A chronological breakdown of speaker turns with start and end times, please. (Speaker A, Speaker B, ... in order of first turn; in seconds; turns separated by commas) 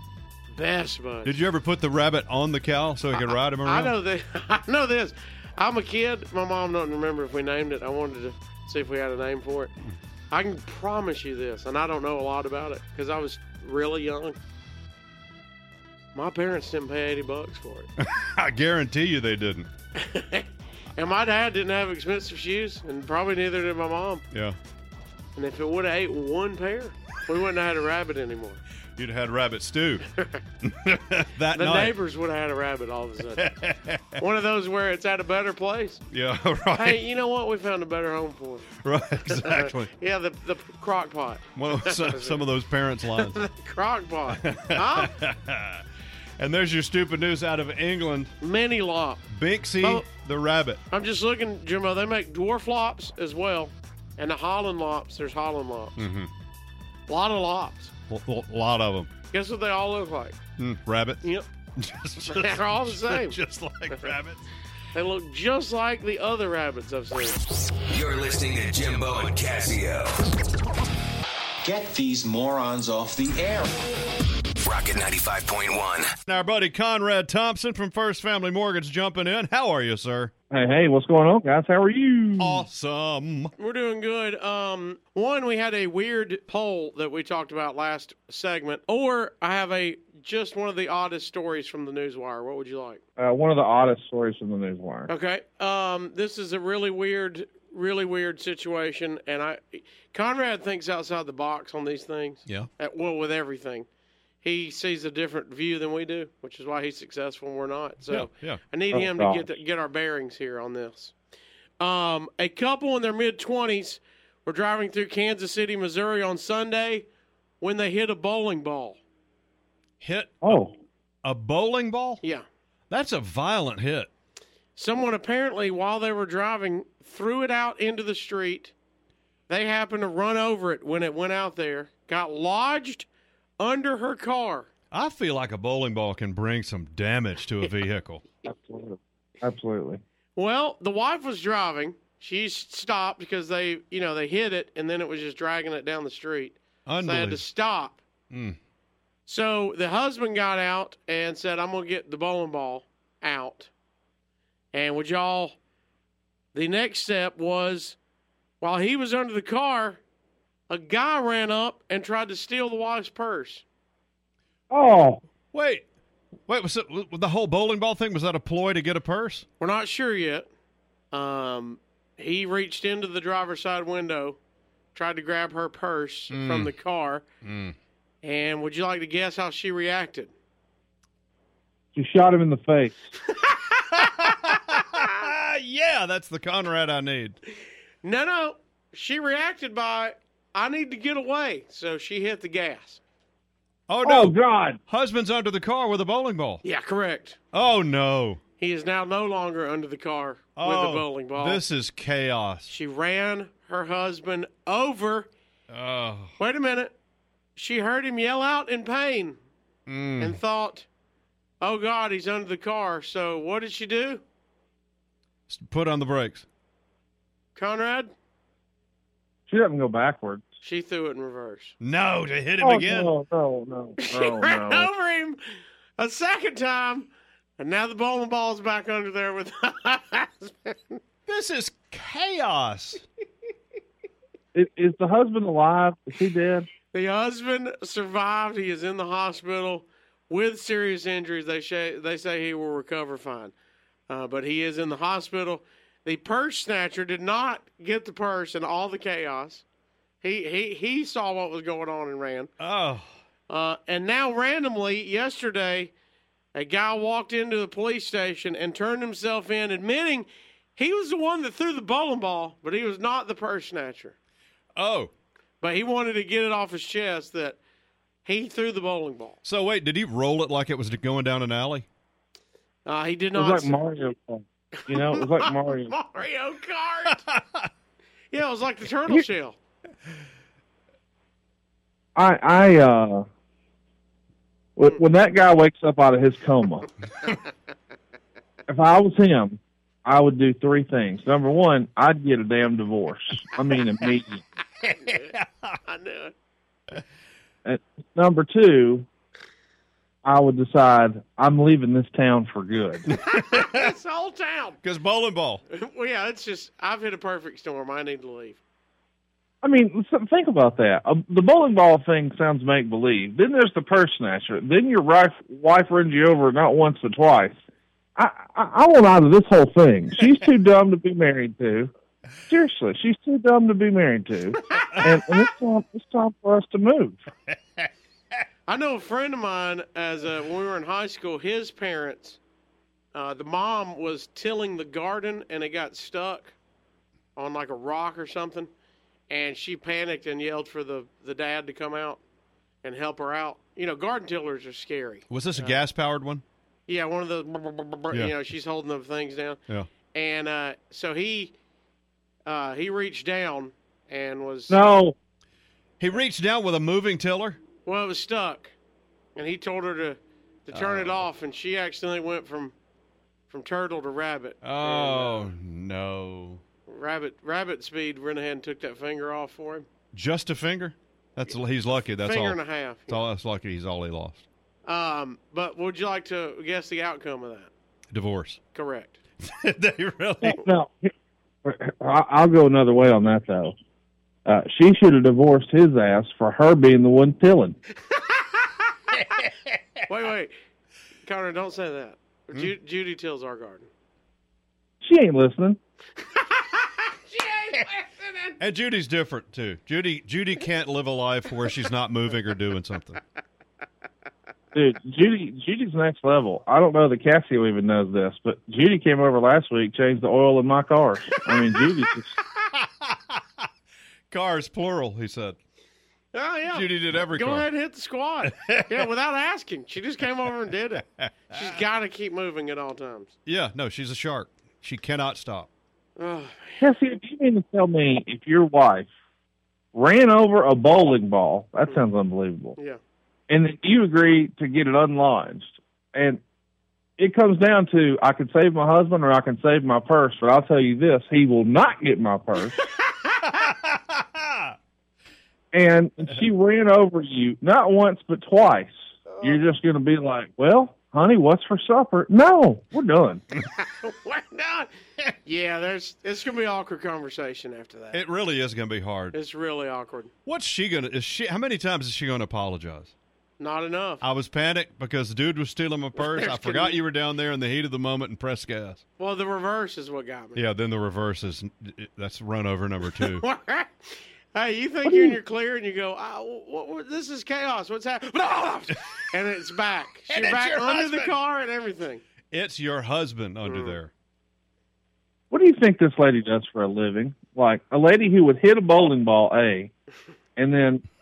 Speaker A: 0.5-1.4, Speaker B: 1.2-3.9, Speaker A: 3.1-9.7, Speaker A: 10.3-14.4, Speaker A: 16.1-17.9, Speaker B: 18.0-19.7, Speaker A: 19.9-24.2, Speaker B: 24.3-24.6, Speaker A: 25.4-28.6, Speaker B: 29.0-30.0, Speaker A: 30.1-30.4, Speaker B: 30.6-31.9, Speaker A: 31.5-33.5, Speaker B: 33.4-34.2, Speaker A: 34.2-36.0, Speaker B: 36.1-37.0, Speaker A: 36.7-38.7, Speaker B: 38.8-39.9, Speaker A: 39.3-42.4, Speaker B: 41.5-43.4, Speaker A: 43.1-45.1, Speaker B: 44.3-45.8, Speaker B: 46.4-48.3, Speaker A: 48.4-49.2, Speaker B: 49.3-50.8, Speaker A: 49.8-50.1, Speaker A: 50.9-55.9, Speaker B: 56.0-56.3, Speaker A: 57.1-57.9, Speaker B: 58.1-59.1, Speaker A: 59.3-60.4, Speaker B: 60.6-61.2, Speaker B: 61.8-64.4, Speaker A: 62.2-63.4, Speaker A: 64.9-67.4, Speaker C: 67.9-70.3, Speaker D: 71.6-73.7, Speaker C: 74.6-76.1, Speaker B: 76.3-80.3, Speaker E: 80.5-82.6, Speaker B: 82.4-83.5, Speaker A: 83.6-93.0, Speaker E: 93.2-95.1, Speaker A: 95.1-103.9, Speaker A: 104.4-111.1, Speaker B: 108.1-108.6, Speaker E: 109.0-109.3, Speaker A: 111.8-117.0, Speaker A: 117.6-119.0, Speaker B: 120.0-120.7, Speaker E: 120.4-120.7, Speaker B: 121.2-122.2, Speaker B: 122.9-124.1, Speaker A: 124.8-128.7, Speaker A: 129.5-133.1, Speaker A: 133.6-134.7, Speaker B: 134.9-138.2, Speaker E: 138.5-140.0, Speaker A: 140.3-148.0, Speaker B: 146.9-147.4, Speaker B: 148.3-148.6, Speaker A: 149.3-153.7, Speaker A: 154.7-155.6, Speaker A: 156.5-157.9, Speaker A: 158.6-160.0, Speaker A: 160.7-163.6, Speaker E: 164.7-165.2, Speaker B: 165.5-165.8, Speaker B: 166.5-169.4, Speaker A: 169.6-170.5, Speaker A: 171.1-174.4, Speaker A: 174.9-177.2, Speaker B: 176.3-176.7, Speaker B: 177.4-177.8, Speaker A: 178.2-180.3, Speaker E: 181.9-183.0, Speaker A: 183.3-184.3, Speaker B: 183.9-187.4, Speaker A: 188.0-193.0, Speaker B: 193.9-196.6, Speaker E: 194.1-194.8, Speaker A: 196.6-197.4, Speaker B: 197.5-198.4, Speaker A: 198.6-201.6, Speaker B: 200.6-202.7, Speaker A: 202.7-205.3, Speaker B: 205.7-206.3, Speaker A: 206.4-206.9, Speaker A: 207.6-209.4, Speaker B: 209.9-210.4, Speaker A: 210.2-210.9, Speaker A: 211.6-214.2, Speaker B: 215.5-216.4, Speaker A: 217.6-218.1, Speaker E: 219.5-220.4, Speaker A: 220.6-221.7, Speaker B: 221.8-223.1, Speaker E: 222.6-224.9, Speaker A: 224.0-225.4, Speaker A: 226.0-231.0, Speaker B: 231.3-233.0, Speaker E: 234.5-236.7, Speaker A: 236.9-243.5, Speaker A: 244.1-249.6, Speaker A: 250.2-252.5, Speaker B: 252.6-253.2, Speaker A: 253.5-255.9, Speaker A: 256.5-264.1, Speaker B: 264.8-265.1, Speaker A: 265.6-267.6, Speaker A: 268.2-269.4, Speaker B: 269.4-271.9, Speaker A: 272.9-273.8, Speaker E: 273.4-275.9, Speaker A: 274.8-277.2, Speaker B: 277.1-277.7, Speaker A: 278.3-279.6, Speaker E: 282.1-283.2, Speaker E: 284.8-286.9, Speaker E: 288.7-294.4, Speaker A: 294.8-295.3, Speaker B: 295.3-295.8, Speaker A: 295.9-296.3, Speaker E: 297.6-299.1, Speaker E: 300.2-303.0, Speaker B: 303.1-303.9, Speaker A: 303.2-304.8, Speaker B: 304.8-305.6, Speaker A: 305.7-308.6, Speaker E: 309.6-317.6, Speaker E: 318.2-321.9, Speaker E: 322.5-327.2, Speaker A: 324.7-325.1, Speaker B: 324.9-325.2, Speaker A: 328.7-332.4, Speaker A: 333.1-336.5, Speaker A: 337.4-338.7, Speaker A: 339.3-342.2, Speaker A: 342.8-345.8, Speaker B: 345.3-346.4, Speaker A: 346.9-349.6, Speaker A: 350.1-351.5, Speaker A: 352.4-354.9, Speaker E: 354.7-355.1, Speaker B: 356.0-357.6, Speaker A: 357.8-358.7, Speaker A: 359.4-362.7, Speaker B: 360.7-361.2, Speaker A: 363.5-365.5, Speaker B: 364.6-366.6, Speaker A: 366.9-369.9, Speaker B: 370.1-374.4, Speaker A: 372.2-373.3, Speaker A: 374.9-377.7, Speaker B: 378.1-378.6, Speaker A: 378.7-379.2, Speaker B: 379.4-380.6, Speaker E: 380.4-381.1, Speaker E: 381.6-383.7, Speaker E: 384.5-387.8, Speaker A: 388.1-388.7, Speaker A: 390.1-390.5, Speaker A: 391.2-393.9, Speaker E: 395.0-395.8, Speaker A: 396.2-398.6, Speaker B: 398.6-403.2, Speaker E: 404.7-412.3, Speaker A: 411.4-412.1, Speaker B: 412.7-413.6, Speaker B: 414.3-415.6, Speaker A: 416.3-423.3, Speaker B: 416.7-417.7, Speaker B: 418.5-418.9, Speaker B: 421.2-421.7, Speaker B: 423.4-425.7, Speaker A: 426.2-426.9, Speaker E: 426.8-429.1, Speaker E: 429.9-432.8, Speaker E: 433.5-436.4, Speaker E: 437.2-442.8, Speaker B: 443.4-444.7, Speaker E: 445.7-453.4, Speaker A: 449.3-449.7, Speaker A: 453.8-458.2, Speaker B: 458.1-459.4, Speaker A: 459.3-460.3, Speaker B: 460.4-463.1, Speaker A: 463.6-464.2, Speaker B: 464.2-469.0, Speaker A: 466.2-467.0, Speaker A: 469.2-470.6, Speaker B: 470.6-473.4, Speaker A: 473.1-482.2, Speaker B: 480.3-481.3, Speaker B: 482.5-484.1, Speaker A: 483.6-483.9, Speaker E: 485.5-489.9, Speaker E: 490.6-491.0